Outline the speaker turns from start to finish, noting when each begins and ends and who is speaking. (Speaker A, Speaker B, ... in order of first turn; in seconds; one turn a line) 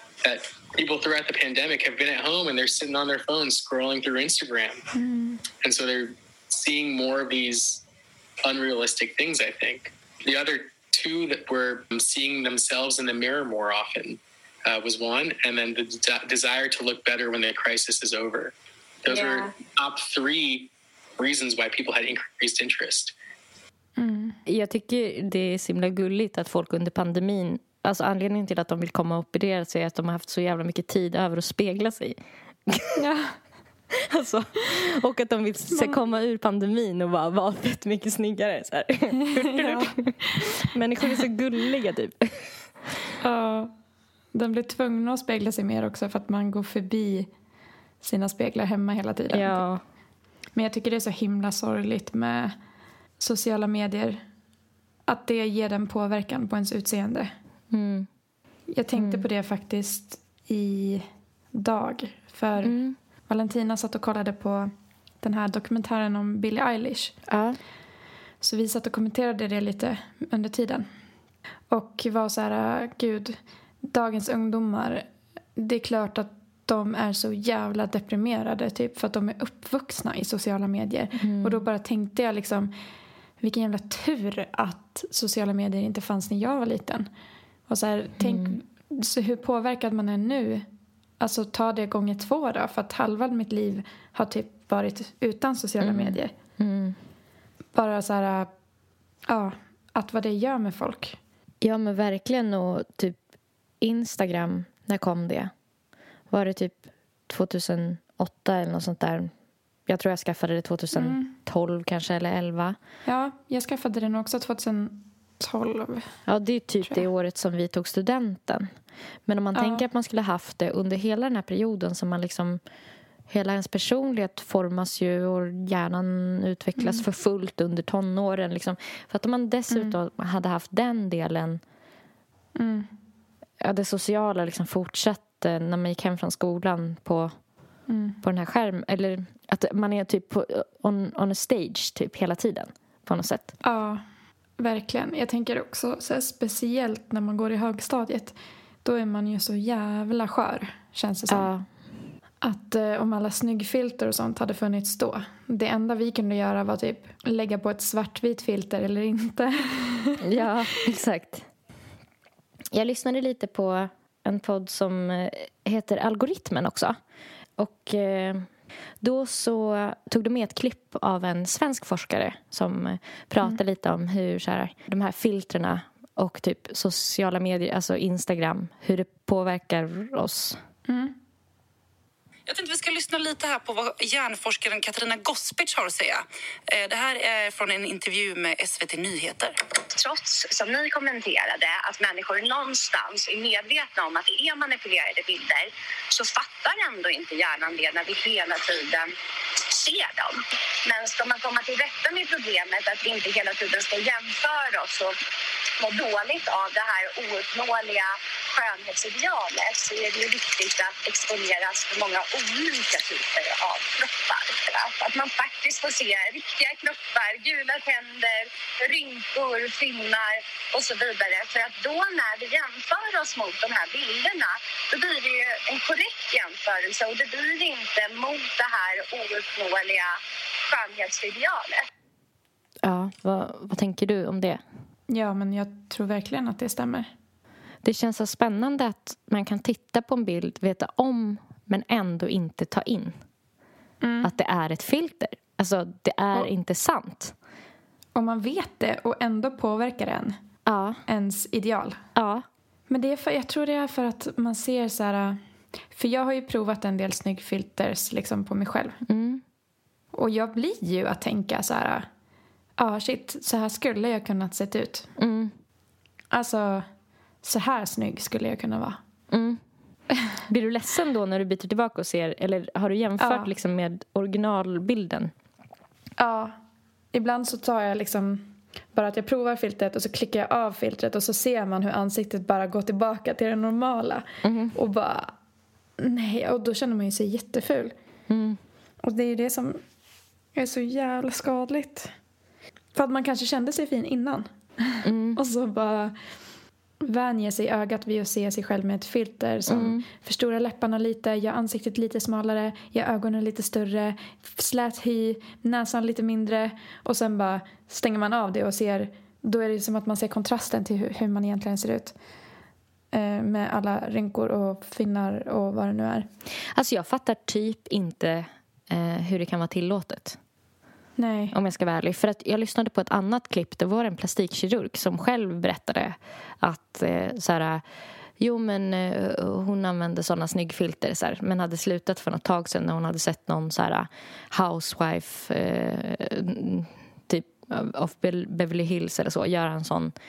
Speaker A: 0.2-4.8
Speaker B: 4.9-5.4
Speaker A: 5.6-7.8
Speaker A: 8.4-18.5
Speaker A: 19.0-23.1
Speaker C: 19.1-19.5
Speaker B: 24.0-24.4
Speaker D: 24.5-32.2
Speaker D: 32.7-33.0
Speaker B: 33.0-33.4
Speaker D: 33.9-42.3
Speaker B: 35.7-36.0
Speaker B: 39.4-40.0
Speaker B: 43.2-43.7
Speaker B: 44.3-47.3
Speaker B: 48.0-49.6
Speaker D: 49.3-49.8
Speaker B: 50.5-52.5
Speaker B: 53.2-54.2
Speaker B: 55.1-57.3
Speaker D: 57.7-58.1
Speaker B: 58.7-62.8
Speaker D: 59.0-59.3
Speaker D: 62.6-63.0
Speaker B: 63.3-64.7
Speaker B: 65.2-67.1
Speaker D: 67.3-67.6
Speaker B: 68.4-70.9
Speaker B: 71.7-75.1
Speaker B: 75.6-82.7
Speaker D: 81.2-81.6
Speaker B: 83.4-87.1
Speaker B: 87.7-90.7
Speaker D: 88.2-88.5
Speaker B: 91.2-96.3
Speaker D: 95.8-97.0
Speaker B: 97.7-98.5
Speaker B: 99.3-101.2
Speaker D: 101.6-103.2
Speaker D: 103.8-105.5
Speaker D: 106.3-109.3
Speaker D: 109.9-112.8
Speaker B: 110.9-111.3
Speaker B: 113.1-116.1
Speaker D: 116.3-118.7
Speaker D: 119.3-122.6
Speaker B: 119.5-119.8
Speaker D: 123.3-131.6
Speaker B: 126.8-127.0
Speaker B: 129.7-129.9
Speaker B: 132.6-132.9
Speaker D: 133.6-137.3
Speaker B: 137.9-138.2
Speaker D: 138.2-143.5
Speaker B: 143.6-144.0
Speaker B: 144.6-151.5
Speaker D: 151.3-151.7
Speaker B: 152.4-160.2
Speaker D: 160.2-161.5
Speaker D: 162.7-166.9
Speaker D: 167.6-168.5
Speaker D: 169.0-180.6
Speaker B: 180.9-181.2
Speaker E: 182.5-189.6
Speaker C: 189.9-199.1
Speaker C: 199.7-205.2
Speaker C: 205.8-230.2
Speaker C: 230.7-231.9
Speaker D: 232.8-234.6
Speaker B: 235.1-237.1
Speaker D: 237.8-243.2
Speaker B: 244.0-244.3
Speaker D: 244.2-247.3
Speaker B: 248.2-250.4
Speaker D: 250.7-251.0
Speaker B: 251.1-252.0
Speaker D: 252.2-252.4
Speaker B: 252.9-255.4
Speaker B: 255.9-259.0
Speaker D: 259.1-259.4
Speaker B: 260.1-262.1
Speaker B: 262.8-265.1
Speaker D: 265.2-265.5
Speaker B: 266.3-266.9
Speaker B: 267.4-269.0
Speaker D: 269.3-269.6
Speaker D: 270.5-275.3
Speaker B: 273.2-273.5
Speaker B: 276.2-276.6
Speaker B: 277.1-285.3
Speaker D: 284.4-284.8
Speaker B: 286.0-287.9
Speaker D: 288.3-288.6
Speaker B: 289.0-289.8
Speaker B: 290.6-292.1
Speaker B: 292.9-296.1
Speaker D: 295.0-295.4
Speaker B: 297.0-312.1
Speaker D: 299.7-300.1
Speaker B: 313.1-316.3
Speaker D: 316.7-320.4
Speaker B: 321.2-321.6
Speaker D: 321.5-327.8
Speaker D: 328.4-340.1